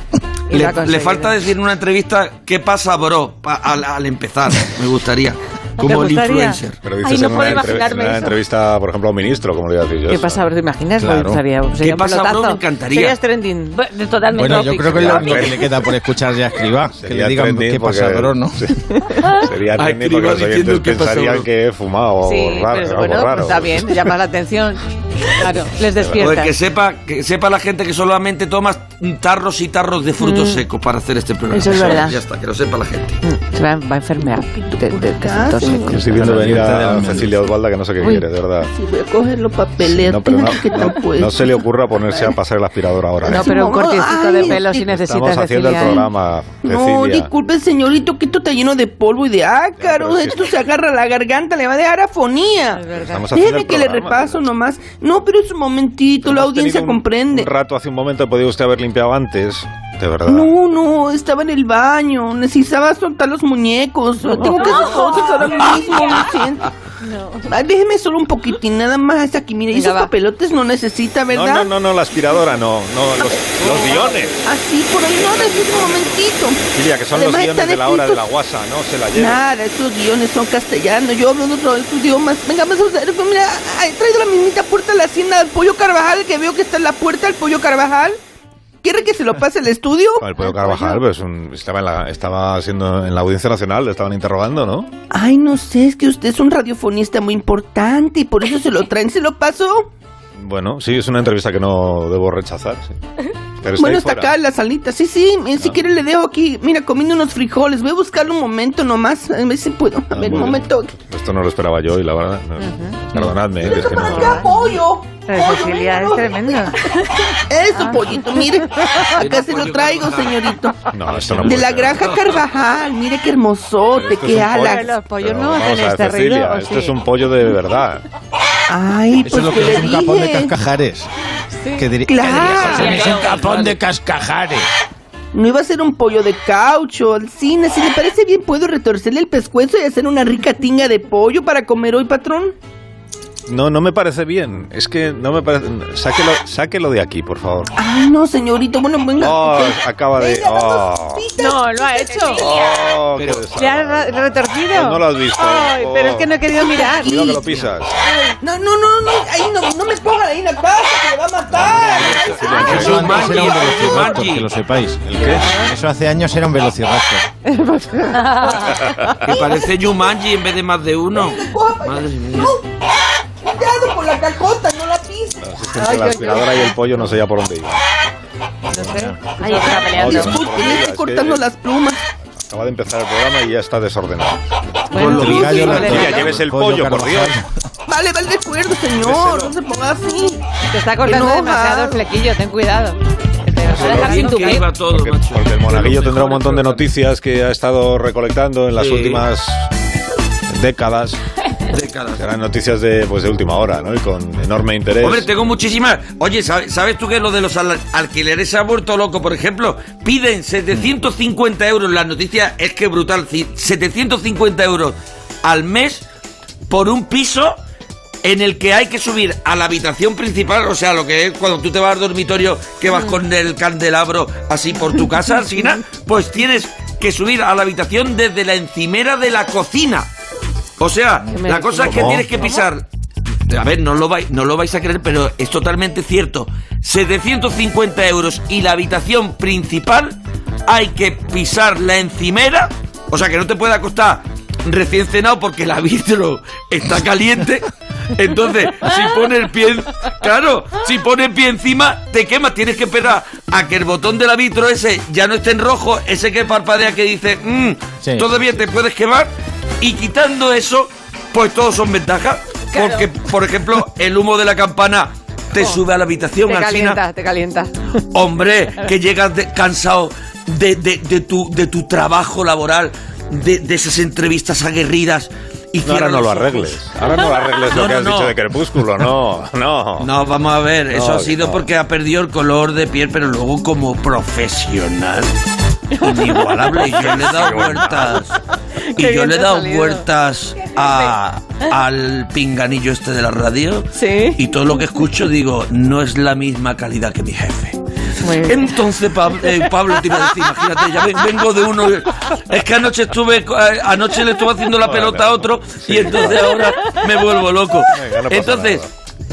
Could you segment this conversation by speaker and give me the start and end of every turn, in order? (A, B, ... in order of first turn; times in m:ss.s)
0:00.5-0:01.4 A
0:00.5-0:06.8 B
0:05.8-0:06.6 A
0:06.8-0:10.5 C
0:07.0-0:08.4 D
0:10.1-0:13.8 A
0:11.0-0:11.4 E
0:11.8-0:13.2 B
0:13.7-0:15.6 D
0:14.4-0:18.6 E
0:14.5-0:15.9 C
0:14.5-0:15.1 A
0:17.0-0:24.1 C
0:18.9-0:19.3 A
0:19.8-0:21.5 B
0:22.2-0:26.6 A
0:26.2-0:33.2 B
0:30.2-0:30.6 A
0:31.5-0:32.2 A
0:33.2-0:36.0 A
0:34.6-0:36.1 F
0:35.9-0:38.7 C
0:36.0-0:37.5 E
0:38.0-0:38.2 A
0:38.7-0:41.7 F
0:39.8-0:43.6 C
0:43.2-0:46.1 A
0:43.2-0:44.9 F
0:44.4-0:47.3 C
0:46.6-0:57.5 F
0:49.8-0:50.5 C
0:52.7-0:53.3 A
0:53.0-0:54.4 C
0:56.2-1:00.5 C
1:00.3-1:06.7 F
1:07.0-1:07.5 A
1:07.4-1:11.7 F
1:09.7-1:10.1 A
1:11.3-1:14.4 C
1:14.4-1:16.6 F
1:15.5-1:16.1 B
1:16.6-1:19.4 C
1:17.1-1:18.2 F
1:19.1-1:28.2 F
1:28.8-1:30.3 F
1:30.2-1:34.9 C
1:30.5-1:31.0 A
1:35.1-1:39.9 F
1:40.4-1:42.9 C
1:43.6-1:44.4 C
1:43.8-1:51.0 F
1:50.1-1:54.5 C
1:52.6-1:53.0 A
1:53.6-1:56.4 F
1:54.0-1:54.7 A
1:55.3-1:56.8 A
1:57.0-2:00.8 F
1:57.8-1:58.0 A
1:59.1-2:00.4 B
2:00.9-2:02.0 C
2:01.1-2:01.7 E
2:01.4-2:04.9 F
2:02.0-2:02.3 B
2:03.9-2:08.0 C
2:04.4-2:07.0 A
2:08.7-2:10.5 F
2:09.2-2:11.1 E
2:09.3-2:09.8 B
2:11.6-2:11.9 A
2:11.8-2:14.7 E
2:12.1-2:13.3 F
2:12.7-2:13.5 D
2:13.0-2:13.8 B
2:15.3-2:22.6 F
2:23.5-2:27.7 C
2:27.8-2:31.8 F
2:29.2-2:31.3 C
2:31.4-2:32.4 A
2:32.0-2:32.9 D
2:32.4-2:36.4 C
2:33.2-2:33.4 B
2:33.6-2:37.3 A
2:36.7-2:43.3 F
2:37.0-2:38.0 C
2:41.5-2:43.4 C
2:42.0-2:44.5 B
2:42.6-2:47.3 E
2:45.1-2:45.5 C
2:45.2-2:45.7 A
2:47.4-2:49.2 A
2:49.2-2:52.6 B
2:49.3-2:49.7 F
2:51.1-2:52.7 F
2:53.4-2:55.4 F
2:55.4-2:57.8 C
2:55.8-2:57.0 A
2:58.7-2:59.8 A
2:58.9-2:59.1 E
2:59.4-3:00.4 D
2:59.7-3:02.0 F
2:59.8-3:01.4 C
3:02.4-3:04.6 C
3:04.9-3:06.2 A
3:04.9-3:06.3 B
3:05.1-3:07.5 E
3:05.3-3:07.4 C
3:07.9-3:10.4 F
3:09.0-3:09.6 C
3:10.7-3:14.6 A
3:11.0-3:12.0 F
3:13.7-3:16.9 B
3:13.8-3:14.6 D
3:14.7-3:19.7 C
3:18.8-3:19.2 B
3:20.5-3:21.2 C
3:21.7-3:22.2 B
3:22.2-3:25.3 C
3:25.0-3:36.0 B
3:36.7-3:37.6 B
3:38.2-3:50.1 B
3:50.8-3:52.9 B
3:51.3-3:52.2 A
3:51.8-3:52.5 C
3:53.5-4:27.0 B
4:18.0-4:18.3 E
4:26.4-4:28.0 A
4:28.1-4:36.8 B
4:35.8-4:40.1 C
4:37.7-4:38.4 B
4:40.0-4:45.3 B
4:40.9-4:41.7 C
4:46.0-4:48.4 B
4:46.1-4:46.4 A
4:46.2-4:48.2 C
4:49.0-4:50.0 A
4:49.0-4:57.8 B
4:54.0-4:54.4 A
4:58.2-4:58.8 A
4:58.4-5:08.8 B
5:04.8-5:07.0 C
5:07.9-5:08.9 C